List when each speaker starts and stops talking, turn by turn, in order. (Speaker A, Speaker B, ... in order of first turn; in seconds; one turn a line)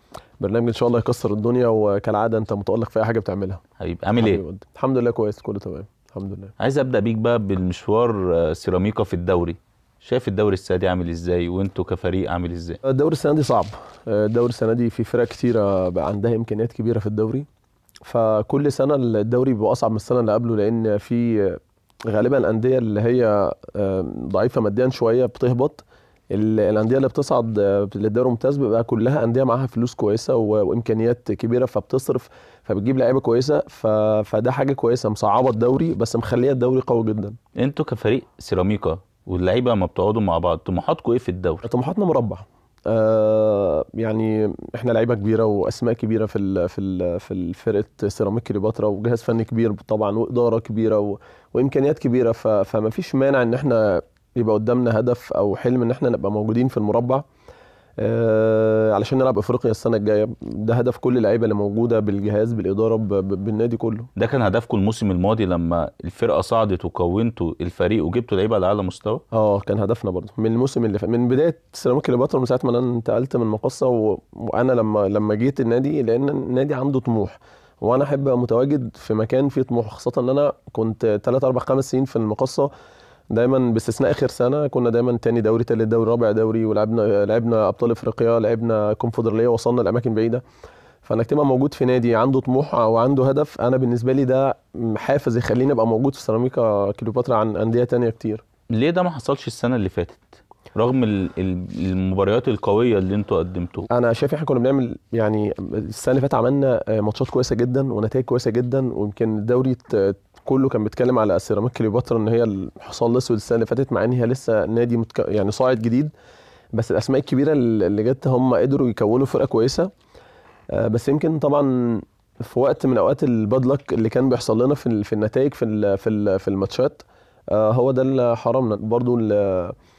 Speaker A: 0.4-3.6
Speaker B: 3.8-4.4
Speaker A: 4.2-6.5
Speaker B: 6.6-12.8
Speaker A: 12.8-17.5
Speaker A: 18.1-37.4
Speaker B: 37.5-41.6
Speaker A: 41.6-57.2
Speaker A: 58.0-64.1
Speaker B: 64.2-69.2
Speaker A: 69.3-82.7
Speaker A: 83.3-90.4
Speaker A: 91.0-98.4
Speaker B: 98.7-103.9
Speaker A: 103.9-116.1
Speaker A: 116.7-119.9
Speaker A: 120.7-129.8